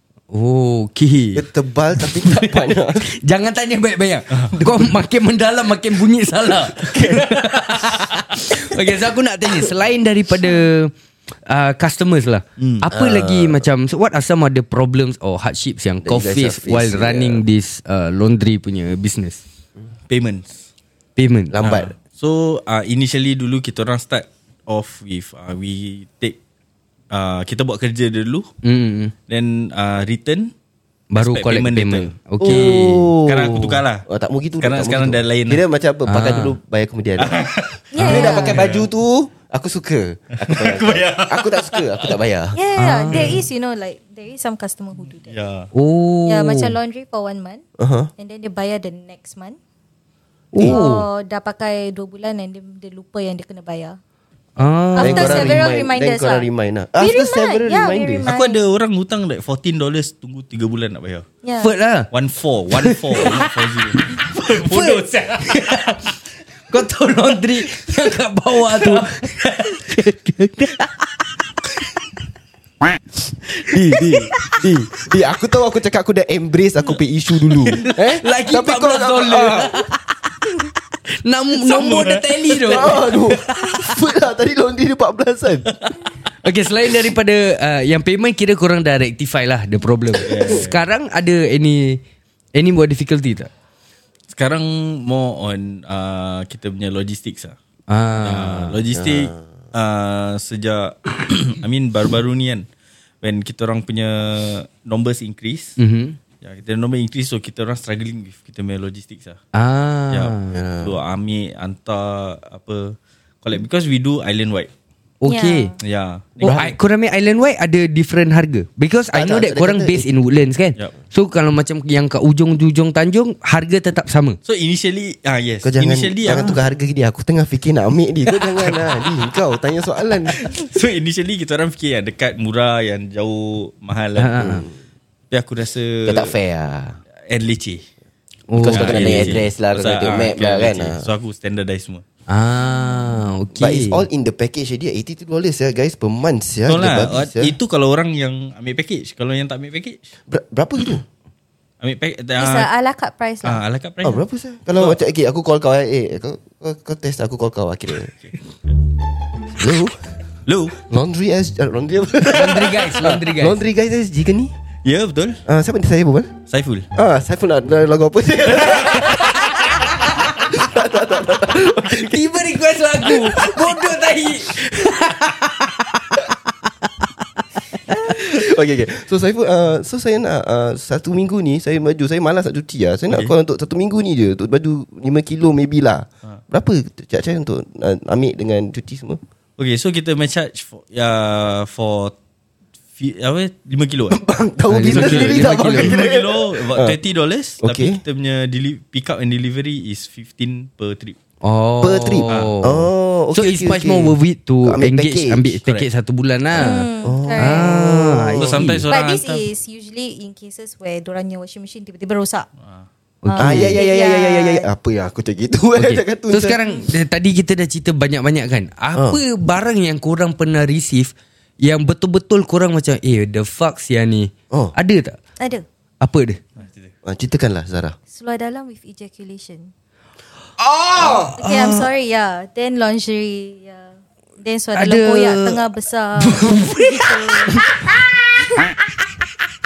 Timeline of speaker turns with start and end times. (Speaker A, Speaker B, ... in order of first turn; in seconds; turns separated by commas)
Speaker A: 0.3-1.4, Speaker B: 1.3-3.0, Speaker A: 2.0-10.9, Speaker C: 4.3-4.6, Speaker C: 6.9-7.2, Speaker A: 11.4-19.4, Speaker C: 12.6-12.8, Speaker B: 12.9-13.7, Speaker B: 16.0-17.4, Speaker C: 20.1-20.6, Speaker A: 21.2-21.5, Speaker B: 21.5-21.9, Speaker C: 21.6-26.4, Speaker C: 27.1-28.5, Speaker A: 28.6-29.1, Speaker C: 29.3-30.5, Speaker A: 31.1-33.1, Speaker C: 31.2-34.0, Speaker B: 32.4-37.3, Speaker C: 34.6-35.6, Speaker A: 36.1-36.5, Speaker C: 37.2-38.9, Speaker D: 37.9-38.6, Speaker A: 38.0-38.5, Speaker B: 38.0-42.6, Speaker C: 40.4-42.1, Speaker D: 42.5-45.4, Speaker A: 42.8-43.4, Speaker C: 45.3-45.7, Speaker A: 45.7-46.7, Speaker D: 46.3-47.6, Speaker B: 47.8-48.1, Speaker D: 48.2-49.6, Speaker A: 50.5-51.1, Speaker D: 50.6-54.0, Speaker A: 54.6-55.6, Speaker D: 54.9-56.5, Speaker B: 55.0-58.3, Speaker D: 57.0-58.6, Speaker C: 58.2-61.2, Speaker D: 61.4-61.7, Speaker A: 61.6-62.1, Speaker C: 62.1-66.0, Speaker A: 62.8-63.5, Speaker A: 64.1-66.0, Speaker A: 66.7-71.0, Speaker B: 73.7-79.7, Speaker A: 74.1-74.6, Speaker A: 77.7-79.9, Speaker A: 81.2-83.9, Speaker C: 81.6-83.0, Speaker B: 82.6-85.7, Speaker A: 86.4-92.0, Speaker C: 90.2-90.8, Speaker A: 92.5-93.5, Speaker C: 94.3-97.5, Speaker A: 97.9-98.7, Speaker C: 98.2-102.6, Speaker B: 98.9-99.4, Speaker C: 103.2-105.8, Speaker A: 105.8-106.2, Speaker C: 106.4-109.4, Speaker A: 109.5-110.6, Speaker C: 110.1-114.7, Speaker B: 110.5-111.0, Speaker A: 115.2-115.7, Speaker D: 115.2-115.8, Speaker C: 115.8-116.7, Speaker B: 116.4-116.7, Speaker A: 116.4-124.4, Speaker B: 119.1-120.1, Speaker C: 124.5-126.5, Speaker B: 125.6-130.5, Speaker C: 130.4-134.6, Speaker A: 134.2-134.6, Speaker B: 134.4-134.7, Speaker C: 135.3-136.3, Speaker B: 136.1-137.0, Speaker C: 137.3-137.8, Speaker A: 138.5-139.4, Speaker B: 138.6-141.1, Speaker C: 138.7-142.0, Speaker A: 142.3-144.0, Speaker D: 142.7-143.2, Speaker B: 143.5-147.5, Speaker C: 146.7-150.0, Speaker B: 150.3-151.0, Speaker C: 151.8-152.7, Speaker D: 152.4-153.6, Speaker C: 153.4-154.2, Speaker B: 154.0-158.1, Speaker B: 159.6-160.0, Speaker C: 160.5-160.8, Speaker B: 160.8-164.5, Speaker A: 162.3-163.6, Speaker C: 164.8-165.4, Speaker B: 165.4-166.3, Speaker C: 166.5-166.9, Speaker B: 166.9-172.3, Speaker C: 168.7-169.1, Speaker A: 171.8-176.2, Speaker B: 178.1-189.2, Speaker C: 189.6-192.1, Speaker C: 193.0-194.2, Speaker B: 194.1-196.9, Speaker A: 194.7-195.9, Speaker C: 194.9-201.2, Speaker B: 197.6-198.0, Speaker A: 201.4-208.8, Speaker B: 201.8-205.6, Speaker C: 202.3-202.5, Speaker D: 206.6-207.7, Speaker B: 207.0-208.6, Speaker C: 208.4-209.4, Speaker D: 208.9-212.5, Speaker A: 213.2-213.8, Speaker D: 213.3-214.7, Speaker B: 213.3-216.6, Speaker A: 215.8-225.2, Speaker B: 218.9-219.2, Speaker D: 225.4-225.6, Speaker A: 226.0-226.4, Speaker C: 226.6-226.9, Speaker B: 227.0-227.9, Speaker D: 228.1-229.7, Speaker B: 230.6-231.4, Speaker A: 231.0-231.9, Speaker D: 231.4-237.7, Speaker A: 234.7-235.6, Speaker A: 236.2-237.7